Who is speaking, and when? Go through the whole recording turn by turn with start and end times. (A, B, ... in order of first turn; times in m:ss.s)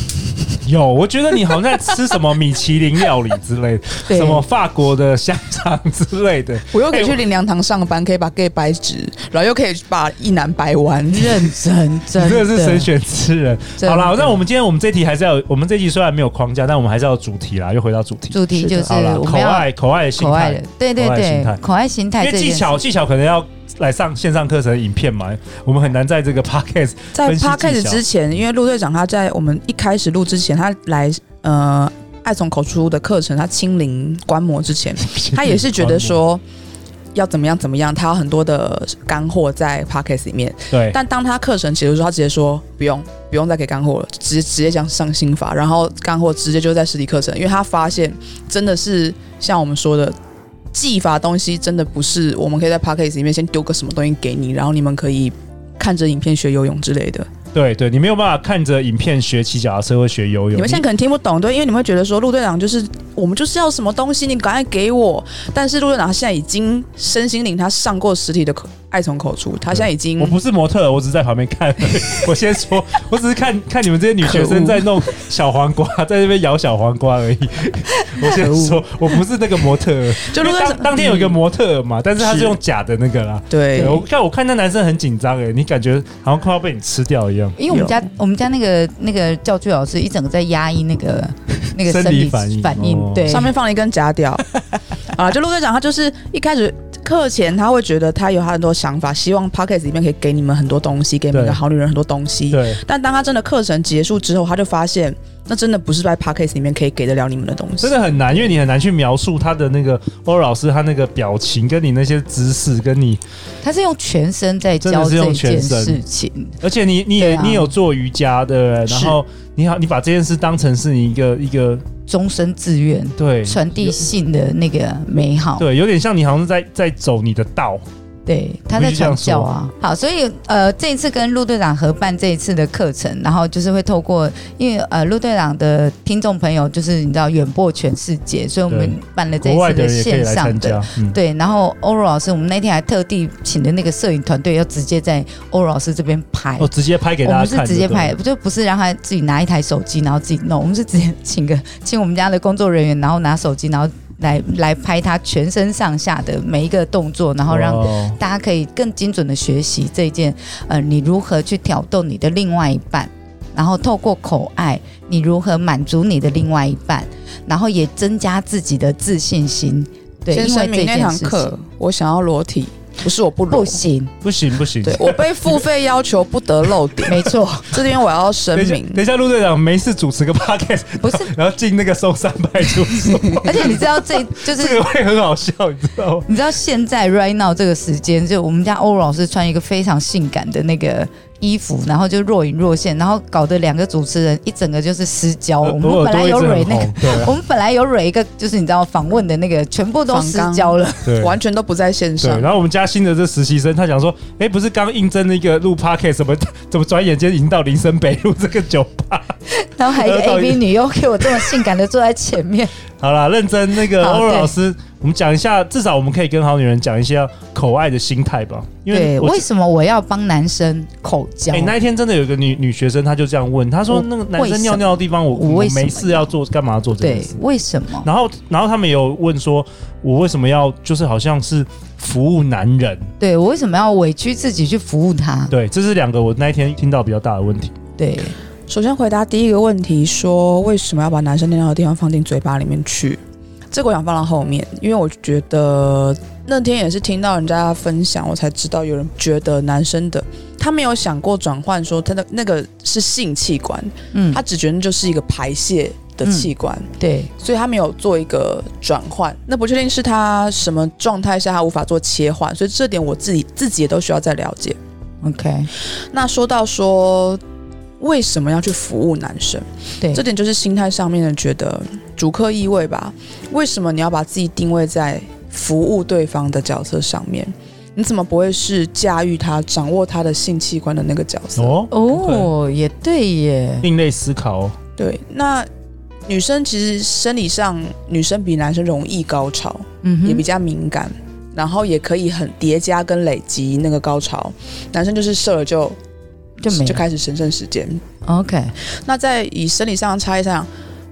0:00.6-0:07.2 A
0:04.1-0:04.4 B
0:06.7-0:11.5 C
0:11.1-0:12.9 B
0:12.1-0:21.6 A
0:13.8-0:14.4 B
0:18.3-0:22.8 B
0:22.2-0:28.0 A
0:27.1-0:36.4 C
0:35.1-0:36.2 A
0:37.1-0:50.2 C
0:40.7-0:41.0 A
0:50.7-0:57.3 C
0:57.5-1:00.8 A
1:00.5-1:10.4 C
1:09.7-1:27.6 A
1:14.2-1:14.9 C
1:20.2-1:21.4 C
1:22.2-1:22.6 C
1:23.5-1:24.1 C
1:27.6-1:33.5 B
1:27.7-1:28.1 C
1:31.8-1:33.5 A
1:33.3-1:34.4 C
1:35.1-1:48.0 C
1:41.3-1:41.6 A
1:42.5-1:42.8 A
1:47.8-1:53.2 A
1:53.6-1:56.6 B
1:54.8-1:56.0 A
1:56.6-2:01.8 A
1:57.2-1:57.7 B
2:02.1-2:05.7 B
2:03.2-2:04.1 A
2:05.6-2:07.8 A
2:08.3-2:26.7 B
2:08.7-2:09.5 A
2:18.7-2:21.2 A
2:26.6-2:28.2 A
2:27.2-2:51.6 B
2:37.5-2:38.2 A
2:50.3-2:53.8 C
2:53.5-2:54.2 B
2:54.2-2:55.2 A
2:54.9-2:59.0 C
2:57.1-2:57.8 B
2:58.5-3:06.3 A
3:01.0-3:01.3 B
3:03.4-3:04.8 B
3:06.3-3:21.2 B
3:15.6-3:17.4 A
3:20.1-3:22.5 C
3:21.0-3:21.4 A
3:22.2-3:29.3 A
3:29.5-3:32.8 B
3:29.9-3:30.6 A
3:31.2-3:31.6 A
3:33.0-3:39.5 A
3:33.9-3:34.5 B
3:38.9-3:41.7 B
3:41.5-3:47.4 A
3:43.9-3:46.3 B
3:47.0-3:48.1 B
3:48.0-3:53.1 A
3:53.2-3:55.5 B
3:55.5-3:57.7 A
3:58.0-3:58.4 B
3:58.7-4:03.2 C
4:03.7-4:24.8 C
4:14.1-4:14.4 B
4:16.2-4:17.3 B
4:25.2-4:25.7 B
4:26.1-4:27.4 C
4:28.0-4:41.8 C
4:41.6-4:42.5 A
4:41.9-4:43.9 B
4:43.8-4:44.8 A
4:45.0-4:45.7 C
4:46.3-4:56.0 C
4:50.0-4:50.4 B
4:56.6-4:57.0 B
4:56.7-4:58.0 C
4:58.3-4:58.8 B
4:58.9-5:00.7 C